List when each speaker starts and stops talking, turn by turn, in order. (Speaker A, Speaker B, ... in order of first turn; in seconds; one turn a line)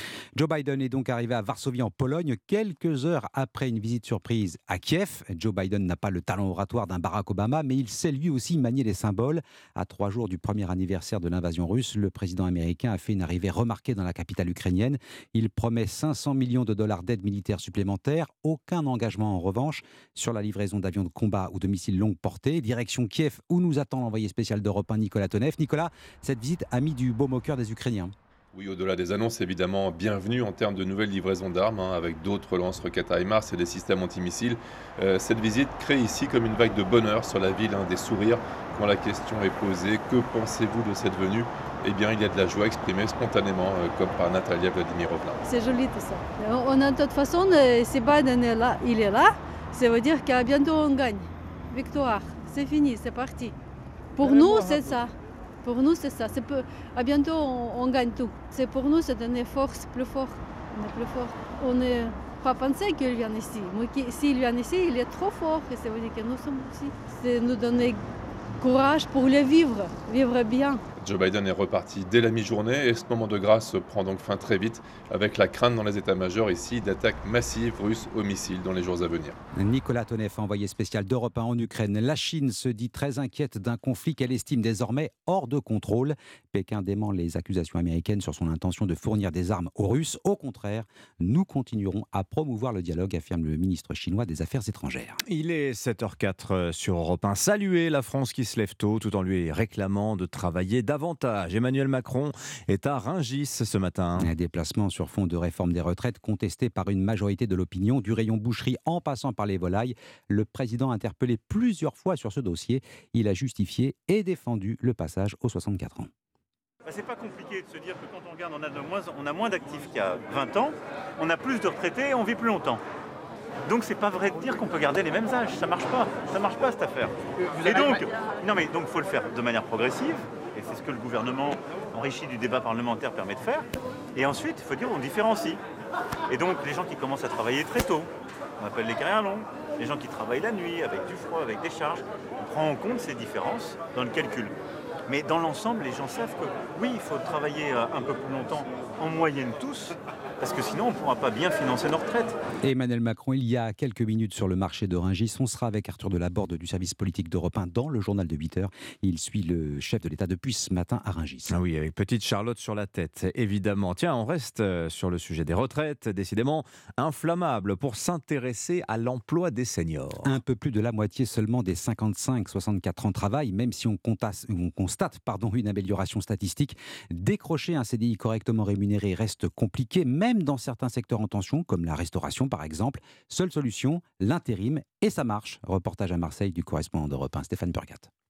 Speaker A: 0.3-28.1
Speaker B: 28.5-45.4
Speaker C: 45.4-53.5
Speaker C: 54.1-55.1
Speaker C: 55.6-68.0
Speaker C: 68.6-70.8
Speaker B: 71.0-79.3
Speaker A: 79.5-95.2
Speaker D: 95.2-104.3
Speaker A: 104.2-116.1
Speaker E: 116.8-122.8
Speaker E: 123.7-135.6
Speaker E: 136.3-144.5
Speaker E: 145.1-152.4
Speaker A: 152.6-161.6
Speaker D: 161.5-170.3
Speaker A: 170.2-188.1